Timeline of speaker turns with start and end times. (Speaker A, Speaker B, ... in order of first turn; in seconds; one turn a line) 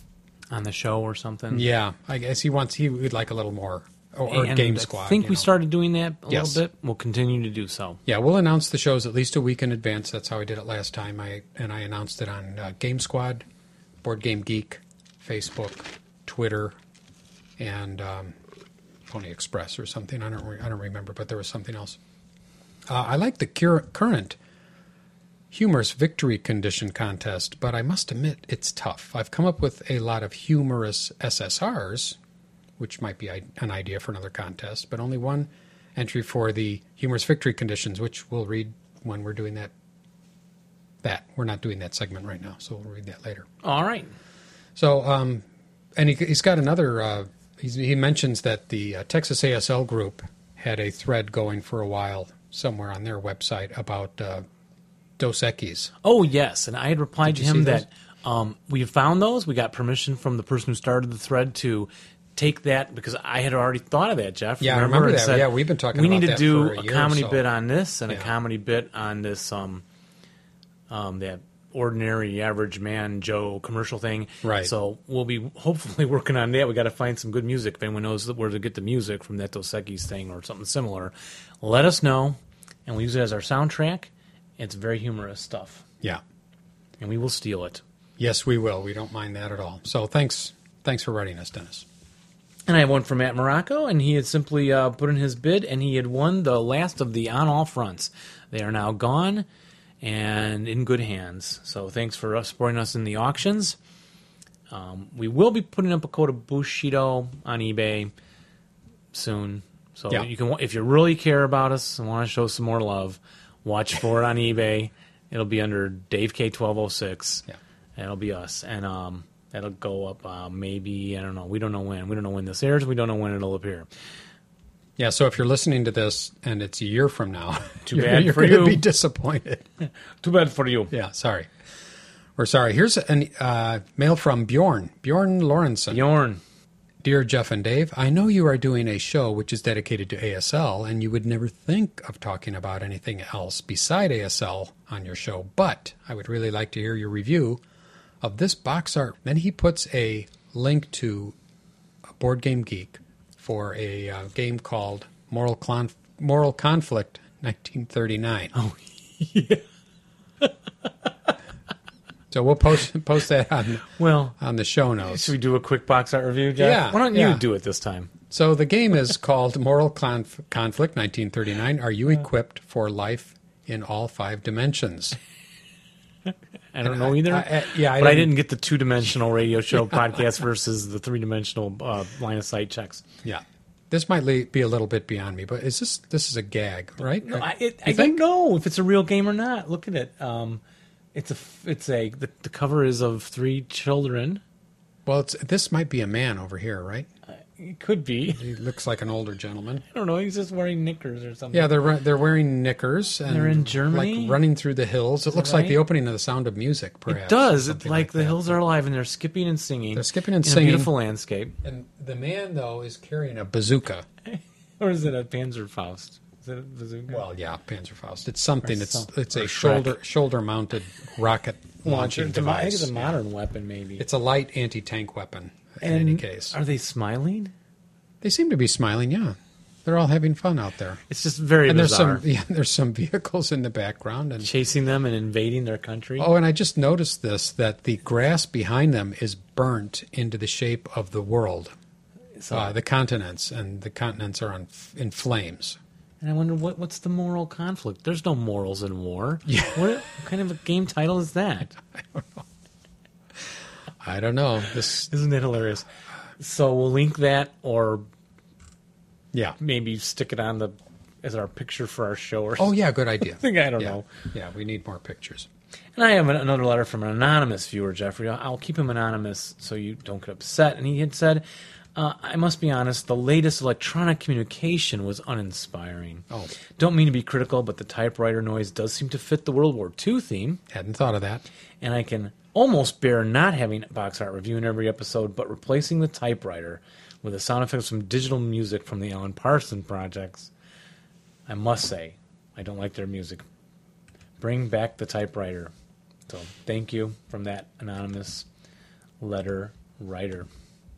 Speaker A: 0.5-1.7
Speaker B: 1.5-5.5
Speaker A: 4.3-8.0
Speaker B: 6.3-6.6
Speaker B: 8.1-13.5
Speaker B: 14.0-16.8
Speaker B: 17.6-18.4
Speaker B: 19.1-22.0
Speaker B: 22.9-24.4
Speaker B: 25.5-32.2
Speaker B: 32.8-39.7
Speaker B: 41.0-43.5
Speaker A: 43.6-44.1
Speaker B: 44.8-54.5
Speaker B: 55.2-55.9
Speaker A: 56.0-69.8
Speaker B: 57.2-57.9
Speaker B: 64.6-67.4
Speaker A: 70.9-85.8
Speaker B: 74.4-74.7
Speaker A: 87.0-87.8
Speaker B: 88.2-91.9
Speaker A: 92.7-99.5
Speaker A: 100.0-103.8
Speaker A: 104.7-108.1
Speaker A: 109.1-123.9
Speaker B: 125.0-129.7
Speaker A: 127.8-128.8
Speaker A: 130.2-130.9
Speaker B: 130.9-131.5
Speaker B: 132.4-136.0
Speaker A: 135.9-136.4
Speaker B: 137.0-147.6
Speaker B: 148.2-151.3
Speaker B: 152.2-158.5
Speaker A: 158.6-159.6
Speaker B: 162.3-165.3
Speaker A: 163.9-164.4
Speaker A: 165.0-168.1
Speaker B: 166.6-167.4
Speaker B: 168.3-175.2
Speaker A: 176.7-183.0
Speaker B: 176.8-178.3
Speaker B: 183.2-188.2
Speaker A: 187.2-190.6
Speaker A: 191.1-194.4
Speaker B: 195.1-197.1
Speaker A: 197.3-198.5
Speaker B: 198.4-199.8
Speaker A: 199.9-201.7
Speaker B: 201.5-208.6
Speaker A: 203.3-204.4
Speaker A: 205.3-205.8
Speaker A: 207.1-211.6
Speaker B: 209.9-210.9
Speaker B: 211.6-214.1
Speaker A: 214.3-217.2
Speaker B: 217.1-223.2
Speaker A: 218.6-220.0
Speaker A: 221.8-224.1
Speaker B: 224.0-226.6
Speaker A: 225.8-227.5
Speaker B: 228.2-231.0
Speaker A: 231.1-232.2
Speaker B: 231.7-234.5
Speaker A: 234.4-236.3
Speaker B: 236.2-241.7
Speaker A: 242.4-242.8
Speaker B: 242.5-245.8
Speaker A: 246.2-251.8
Speaker B: 249.5-249.9
Speaker B: 254.0-255.1
Speaker A: 255.1-255.9
Speaker A: 256.4-258.1
Speaker A: 259.6-262.7
Speaker B: 262.6-265.5
Speaker A: 263.3-264.1
Speaker A: 266.0-276.2
Speaker A: 276.8-280.6
Speaker B: 280.7-281.4
Speaker A: 281.8-290.5
Speaker A: 291.5-293.4
Speaker A: 294.4-295.7
Speaker A: 296.3-298.5
Speaker A: 299.2-300.5